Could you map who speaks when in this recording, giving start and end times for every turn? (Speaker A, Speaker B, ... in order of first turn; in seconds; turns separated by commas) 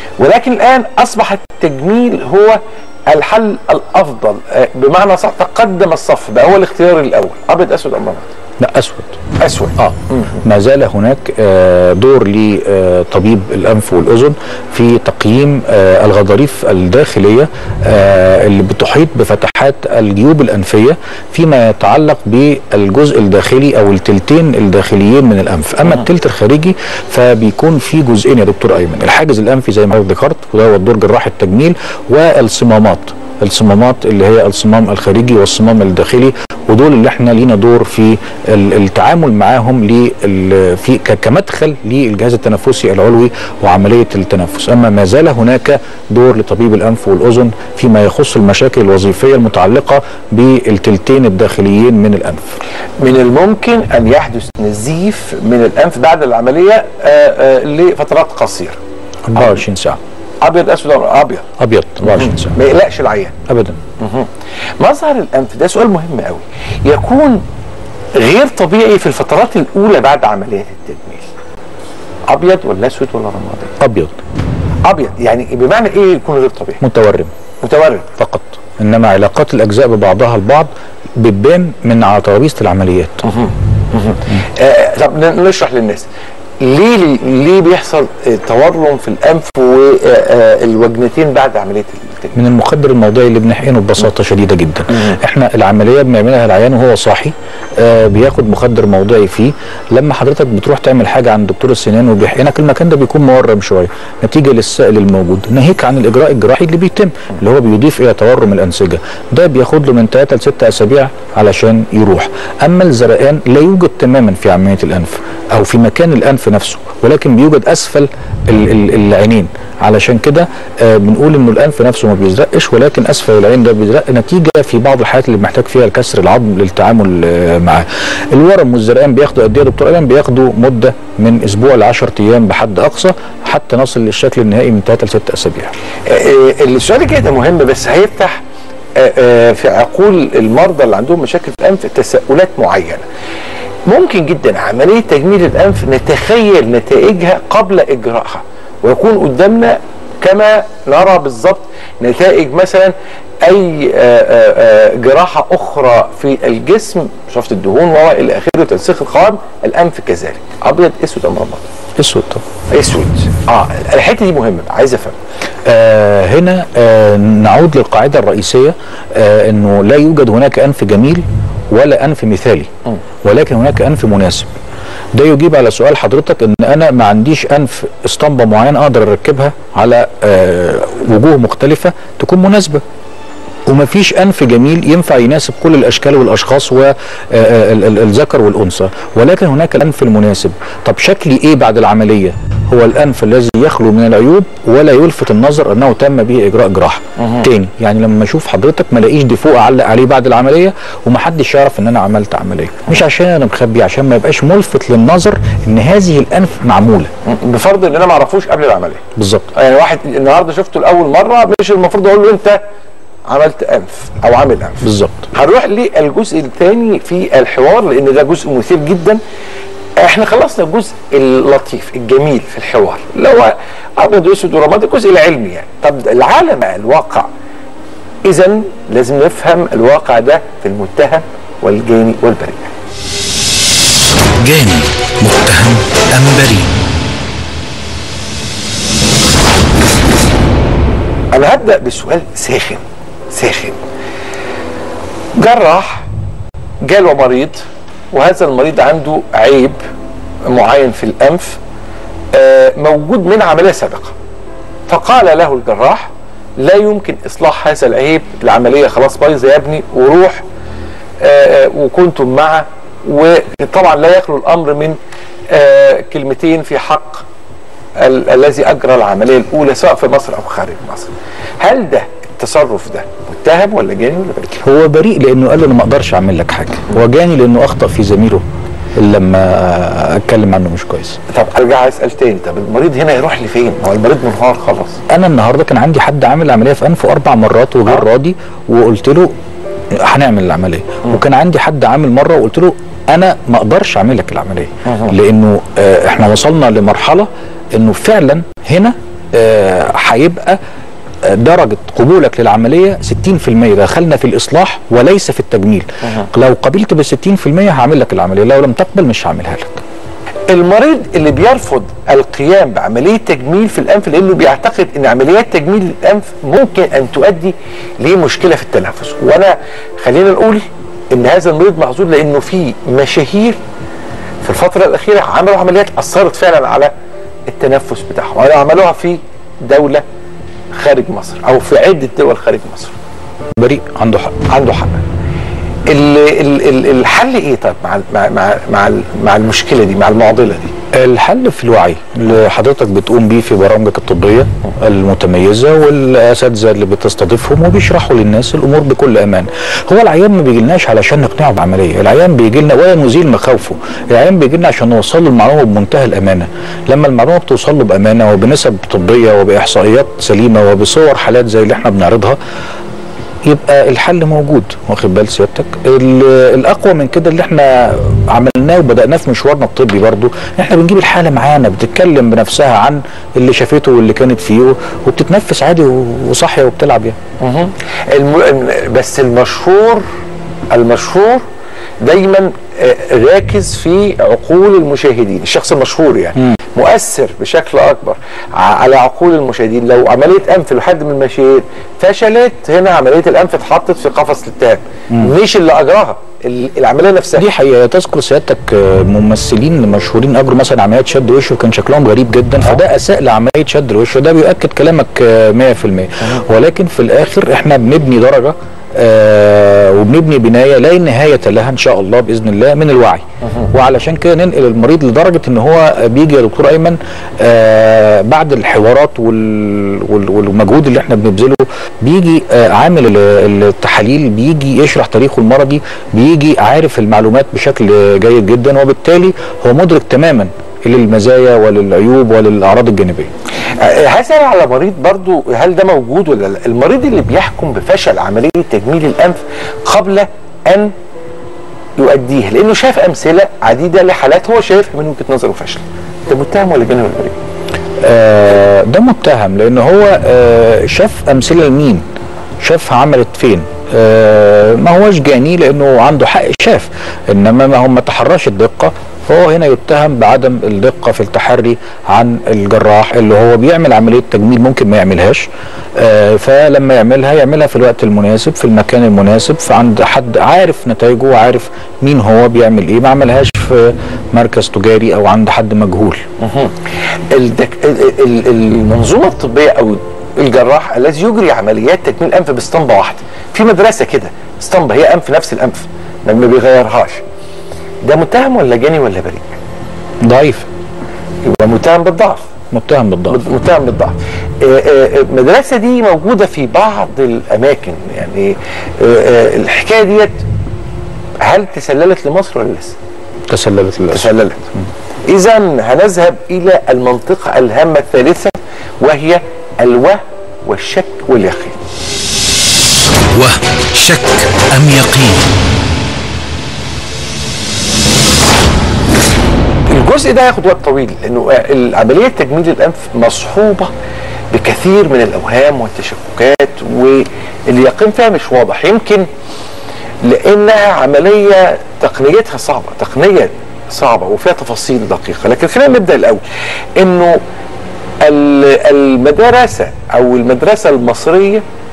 Speaker A: 0.2-8.3, Speaker B: 8.6-9.2, Speaker A: 9.4-10.4, Speaker B: 9.8-52.6, Speaker A: 53.0-58.8, Speaker B: 59.3-60.0, Speaker A: 59.4-59.6, Speaker A: 60.4-61.5, Speaker B: 61.6-62.5, Speaker A: 62.0-63.4, Speaker B: 63.5-63.8, Speaker A: 64.0-64.3, Speaker A: 64.8-67.4, Speaker A: 68.2-71.3, Speaker A: 72.3-73.7, Speaker B: 73.8-74.2, Speaker A: 74.9-76.8, Speaker B: 76.8-77.3, Speaker A: 77.6-78.1, Speaker B: 78.2-83.2, Speaker A: 83.2-86.1, Speaker A: 86.6-92.4, Speaker B: 92.3-135.7, Speaker A: 136.1-138.4, Speaker A: 139.0-143.0, Speaker A: 143.9-152.9, Speaker A: 153.4-161.7, Speaker B: 162.0-162.4, Speaker A: 162.7-165.2, Speaker B: 165.7-172.7, Speaker B: 173.2-174.5, Speaker B: 175.2-182.8, Speaker B: 183.7-207.1, Speaker A: 207.2-209.0, Speaker B: 209.2-209.5, Speaker A: 209.5-212.6, Speaker A: 213.3-219.2, Speaker B: 214.8-215.3, Speaker A: 220.0-227.3, Speaker A: 228.3-232.7, Speaker C: 234.4-236.7, Speaker A: 241.3-243.8, Speaker A: 245.4-246.1, Speaker A: 246.8-247.6, Speaker A: 248.1-249.8, Speaker A: 250.5-251.6, Speaker A: 252.3-254.2, Speaker A: 254.9-260.4, Speaker A: 261.2-265.0, Speaker A: 265.5-267.2, Speaker A: 268.0-274.6, Speaker B: 274.6-278.4, Speaker B: 279.0-281.2, Speaker A: 281.3-285.0, Speaker B: 285.1-289.3, Speaker B: 289.9-300.6, Speaker B: 301.3-309.8, Speaker A: 310.5-323.6, Speaker A: 324.4-326.9, Speaker A: 327.5-330.0, Speaker A: 330.7-332.9, Speaker B: 333.6-334.4, Speaker A: 334.5-335.0, Speaker A: 335.9-340.7, Speaker B: 341.0-362.4, Speaker B: 363.5-377.2, Speaker A: 377.4-380.0, Speaker A: 380.7-381.4, Speaker A: 382.0-397.4, Speaker B: 397.4-433.3, Speaker A: 433.8-440.9, Speaker A: 442.0-447.4, Speaker B: 448.0-452.0, Speaker B: 452.6-476.2, Speaker A: 476.4-476.8, Speaker A: 477.3-487.2, Speaker A: 488.0-489.6, Speaker B: 490.2-490.7, Speaker A: 491.4-492.4, Speaker B: 492.7-493.4, Speaker A: 493.3-500.4, Speaker A: 501.4-502.9, Speaker B: 503.5-504.3, Speaker A: 504.1-504.7, Speaker A: 505.3-511.8, Speaker C: 513.4-515.5, Speaker A: 519.9-523.9, Speaker A: 524.5-529.3, Speaker A: 530.2-536.4, Speaker A: 537.0-537.4, Speaker A: 538.2-541.6